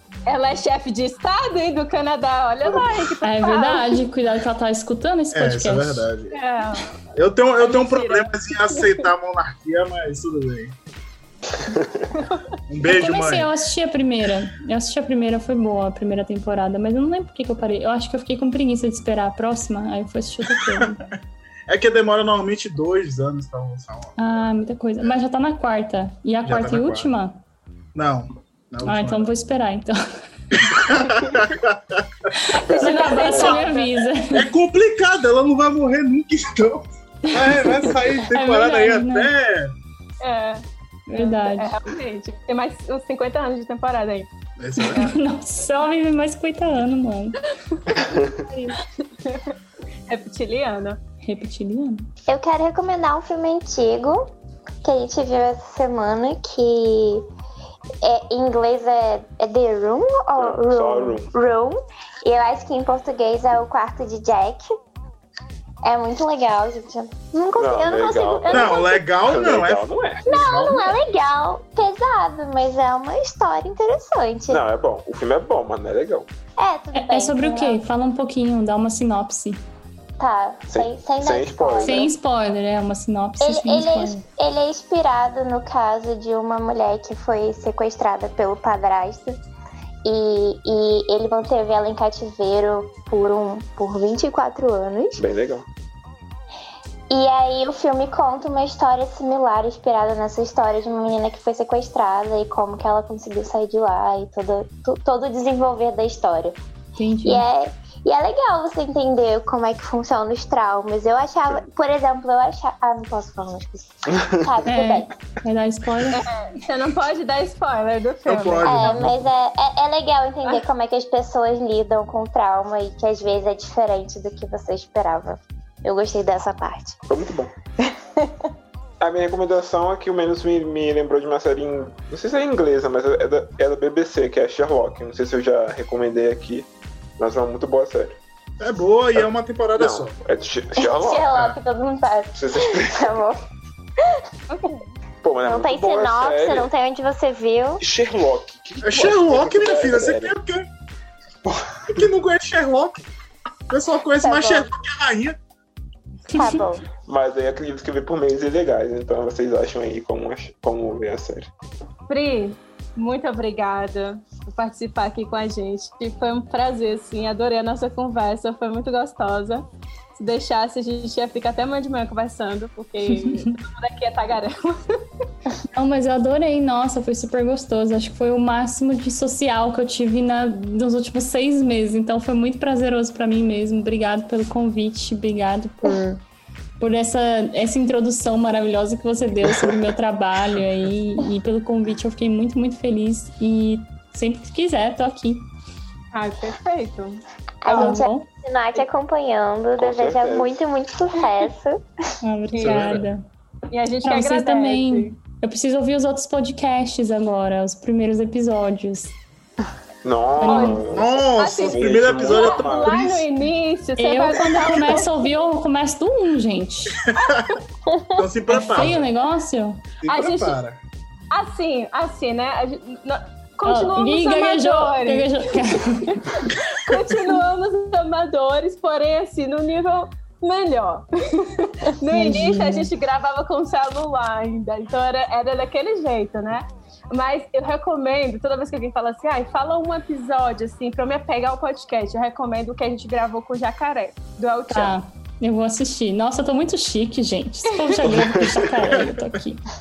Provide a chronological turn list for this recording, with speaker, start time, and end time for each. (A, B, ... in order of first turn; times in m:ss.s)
0:00.3-0:04.0 A
0:03.2-0:06.1 B
0:05.3-0:06.4 C
0:06.3-0:07.0 A
0:07.1-0:10.8 C
0:07.6-0:09.0 A
0:11.6-0:12.1 D
0:12.2-0:12.4 A
0:12.7-0:13.5 C
0:12.9-0:21.0 B
0:20.7-0:21.0 C
0:21.7-0:24.3 C
0:24.2-0:27.4 B
0:26.4-0:27.1 C
0:28.0-0:29.3 C
0:28.8-0:30.0 B
0:30.5-0:32.3 C
0:32.4-0:34.5 B
0:32.7-0:33.6 D
0:32.7-0:34.0 A
0:34.3-0:39.7 C
0:37.2-0:39.3 B
0:40.2-0:40.6 A
0:41.1-0:41.8 B
0:41.2-0:45.1 A
0:44.6-0:45.1 C
0:45.0-0:47.4 B
0:47.9-0:48.8 B
0:49.2-0:49.6 A
0:50.1-0:51.0 A
0:51.2-0:52.1 B
0:52.3-0:54.2 E
0:54.8-0:57.2 E
0:58.0-1:04.7 E
1:00.4-1:01.3 D
1:05.8-1:09.1 E
1:07.6-1:10.3 D
1:08.5-1:11.0 C
1:10.3-1:14.6 E
1:14.5-1:16.3 D
1:16.6-1:17.8 E
1:16.9-1:19.6 B
1:20.2-1:22.1 E
1:20.7-1:22.1 D
1:21.8-1:24.2 B
1:23.4-1:29.4 E
1:30.0-1:35.2 E
1:35.2-1:35.7 D
1:37.1-1:46.6 E
1:47.0-1:47.4 B
1:47.2-1:55.1 E
1:54.2-1:54.5 D
1:54.7-1:56.3 B
1:56.1-1:58.8 A
1:58.3-1:59.3 C
1:58.6-2:07.0 E
2:07.1-2:07.5 D
2:07.8-2:08.5 E
2:09.0-2:16.7 D
2:17.2-2:18.2 D
2:18.6-2:20.1 C
2:19.8-2:21.3 D
2:20.8-2:23.4 E
2:22.4-2:23.2 D
2:24.5-2:25.0 A
2:25.2-2:26.7 D
2:25.4-2:27.8 E
2:27.8-2:30.3 D
2:28.8-2:30.7 C
2:31.4-2:32.0 D
2:31.9-2:33.0 C
2:33.7-2:35.4 C
2:34.2-2:34.7 E
2:36.3-2:36.6 B
2:36.3-2:36.8 E
2:36.5-2:41.5 D
2:42.1-2:55.0 A
2:53.1-2:53.6 B
2:55.7-3:06.2 B
3:06.8-3:15.5 B
3:16.1-3:18.0 A
3:17.6-3:21.8 E
3:17.7-3:18.3 B
3:19.8-3:20.6 D
3:22.2-3:23.2 B
3:22.5-3:23.0 A
3:22.6-3:23.1 C
3:23.7-3:25.2 A
3:24.0-3:29.2 B
3:30.0-3:33.1 D
3:30.4-3:30.9 B
3:30.4-3:35.2 A
3:30.9-3:33.3 C
3:34.0-3:37.0 B
3:37.1-3:37.6 A
3:37.2-3:37.6 C
3:37.9-3:38.3 E
3:38.2-3:39.0 C
3:38.5-3:39.8 B
3:40.0-3:40.8 C
3:40.1-3:40.6 A
3:41.3-4:05.0 A
3:43.7-3:46.5 B
3:52.1-3:52.9 B
4:04.7-4:09.6 B
4:07.7-4:08.1 A
4:08.1-4:09.0 D